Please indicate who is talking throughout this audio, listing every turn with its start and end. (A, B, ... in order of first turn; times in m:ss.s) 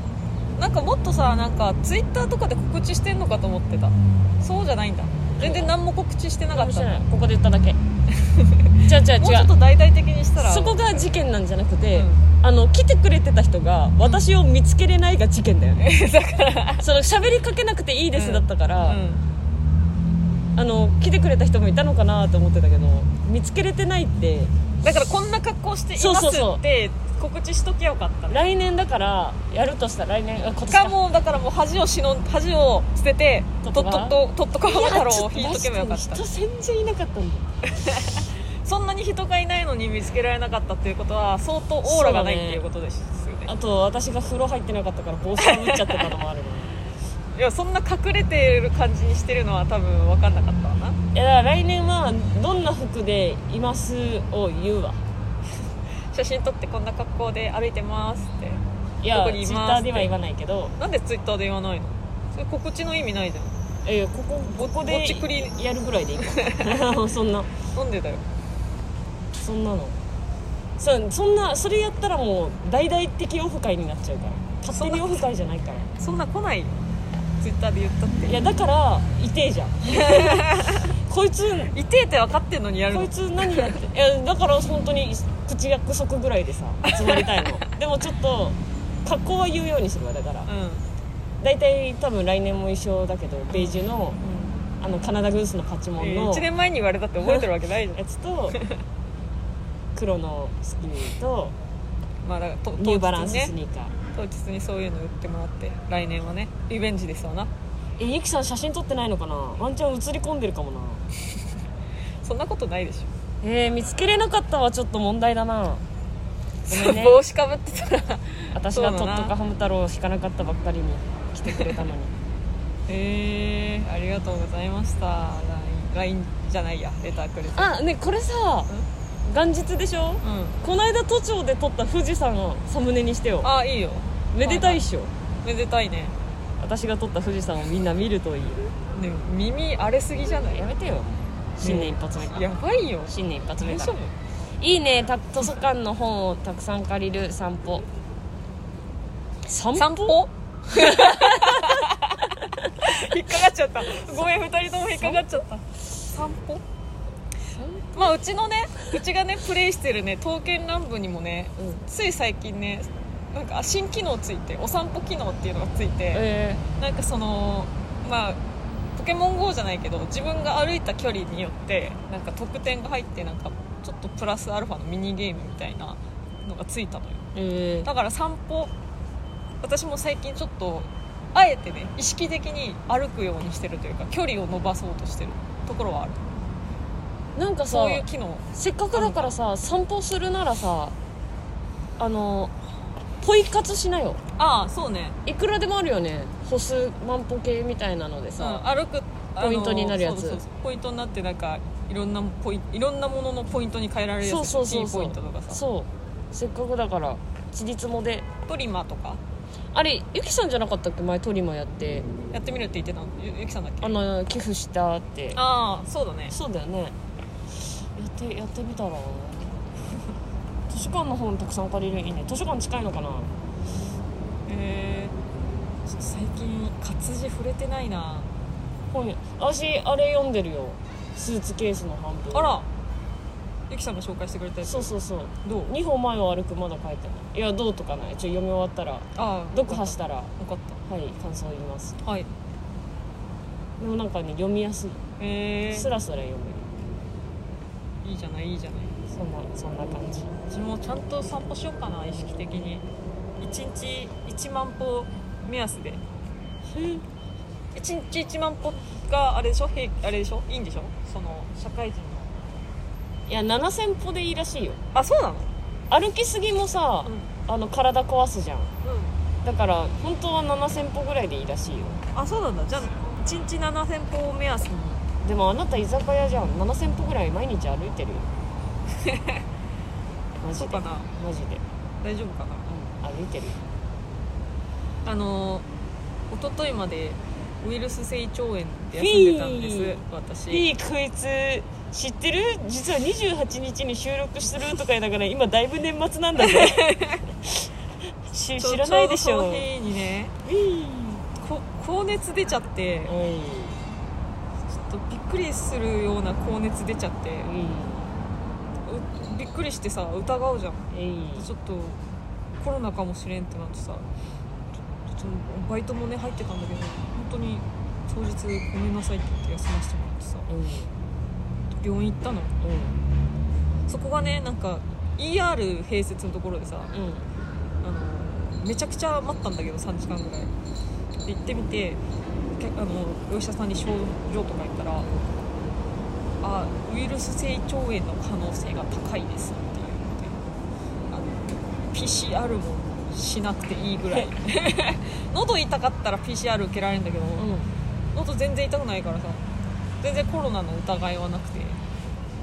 0:00.6-0:07.0 A
0:05.4-0:05.7 B
0:06.5-0:07.8 B
0:08.1-0:11.0 A
0:08.8-0:09.5 B
0:10.4-0:15.9 B
0:11.9-0:12.2 A
0:15.8-0:16.8 A
0:16.8-0:19.0 B
0:18.1-0:19.2 A
0:20.6-0:24.5 B
0:24.8-0:28.4 A
0:26.0-0:26.6 B
0:28.3-0:30.9 B
0:30.6-0:36.2 A
0:33.6-0:37.5 B
0:37.6-0:43.5 A
0:41.8-0:42.6 B
0:43.4-0:46.8 B
0:45.4-0:46.1 A
0:47.3-0:51.0 A
0:51.1-0:55.0 B
0:56.1-1:00.1 A
0:59.0-1:00.7 B
1:00.8-1:03.6 A
1:03.8-1:07.5 B
1:04.5-1:05.5 A
1:06.2-1:06.9 A
1:07.7-1:08.2 A
1:09.4-1:10.0 B
1:10.8-1:15.9 B
1:14.7-1:15.2 A
1:16.0-1:16.8 A
1:17.4-1:18.4 A
1:18.2-1:21.7 B
1:19.9-1:20.9 A
1:21.7-1:23.7 A
1:22.9-1:30.5 B
1:26.9-1:27.5 A
1:30.4-1:30.8 A
1:31.4-1:34.2 B
1:33.5-1:34.6 A
1:34.8-1:36.4 B
1:36.0-1:38.0 A
1:37.2-1:38.6 B
1:38.5-1:38.8 A
1:39.9-1:41.5 B
1:42.2-1:43.5 A
1:42.8-1:43.9 B
1:44.1-1:47.5 A
1:48.0-1:51.0 B
1:52.2-1:53.1 A
1:53.4-1:55.8 B
1:56.7-1:59.3 A
1:56.7-1:57.2 B
1:58.5-2:02.1 B
2:01.5-2:01.8 A
2:02.9-2:07.7 A
2:07.5-2:08.7 B
2:09.2-2:13.5 B
2:10.2-2:10.6 A
2:13.4-2:14.8 A
2:14.3-2:15.1 B
2:15.4-2:16.1 A
2:16.6-2:18.7 B
2:18.9-2:20.6 A
2:20.5-2:22.5 B
2:21.6-2:24.1 A
2:23.1-2:24.0 B
2:24.6-2:27.8 B
2:29.4-2:33.1 B
2:29.7-2:36.6 A
2:34.9-2:35.3 B
2:37.5-2:38.0 B
2:37.9-2:46.2 A
2:41.6-2:41.8 B
2:46.1-2:46.6 B
2:46.8-2:48.4 A
2:48.9-2:57.2 A
2:57.3-2:57.9 B
2:57.8-2:58.7 A
2:59.6-3:06.4 A
3:07.4-3:10.9 B
3:07.7-3:09.3 A
3:12.0-3:12.5 B
3:13.2-3:14.2 B
3:14.4-3:15.2 A
3:15.2-3:18.6 B
3:18.4-3:25.6 A
3:19.4-3:20.4 B
3:24.2-3:28.2 B
3:28.4-3:29.2 A
3:29.7-3:32.1 B
3:32.3-3:33.9 A
3:33.8-3:35.4 B
3:35.3-3:36.3 A
3:36.3-3:36.9 B
3:37.9-3:39.6 B
3:40.7-3:43.3 B
3:44.4-3:45.1 A
3:45.9-3:48.3 A
3:48.9-3:52.5 B
3:52.3-3:52.7 A
3:53.7-3:54.9 A
3:54.6-4:00.3 B
3:55.4-3:55.7 A
3:59.2-4:00.8 A
4:00.8-4:02.0 B
4:02.0-4:02.3 A
4:03.8-4:05.0 B
4:05.2-4:05.9 A
4:05.7-4:06.7 B
4:08.0-4:08.9 A
4:09.1-4:10.3 B
4:10.5-4:12.8 A
4:13.4-4:16.0 A
4:16.7-4:17.0 B
4:17.7-4:22.3 A
4:23.3-4:24.8 B
4:24.9-4:25.5 A
4:25.9-4:28.7 B
4:27.0-4:27.3 A
4:28.8-4:29.2 A
4:29.4-4:32.0 B
4:32.1-4:35.0 A
4:35.2-4:38.3 B
4:39.0-4:39.4 A
4:40.4-4:41.6 B
4:40.5-4:41.1 A
4:42.0-4:42.7 A
4:42.7-4:43.6 B
4:45.0-4:45.6 A
4:46.3-4:50.6 A
4:48.9-4:57.7 B
4:56.4-4:57.2 A
4:58.3-4:59.7 B
4:58.6-5:00.3 A
5:00.4-5:01.2 B
5:01.4-5:03.1 A
5:03.0-5:03.8 B
5:04.7-5:07.5 A
5:07.4-5:08.1 B
5:08.8-5:12.0 A
5:10.9-5:11.5 B
5:12.6-5:14.0 A
5:15.1-5:20.5 A
5:20.5-5:20.9 B
5:21.8-5:22.5 A
5:22.6-5:23.0 B
5:23.9-5:26.9 A
5:26.9-5:27.3 B
5:27.8-5:30.5 A
5:31.2-5:32.0 A
5:32.6-5:35.1 A
5:36.4-5:40.4 A
5:41.1-5:47.5 A
5:47.4-5:47.7 B
5:48.1-5:49.4 A
5:50.0-5:51.8 A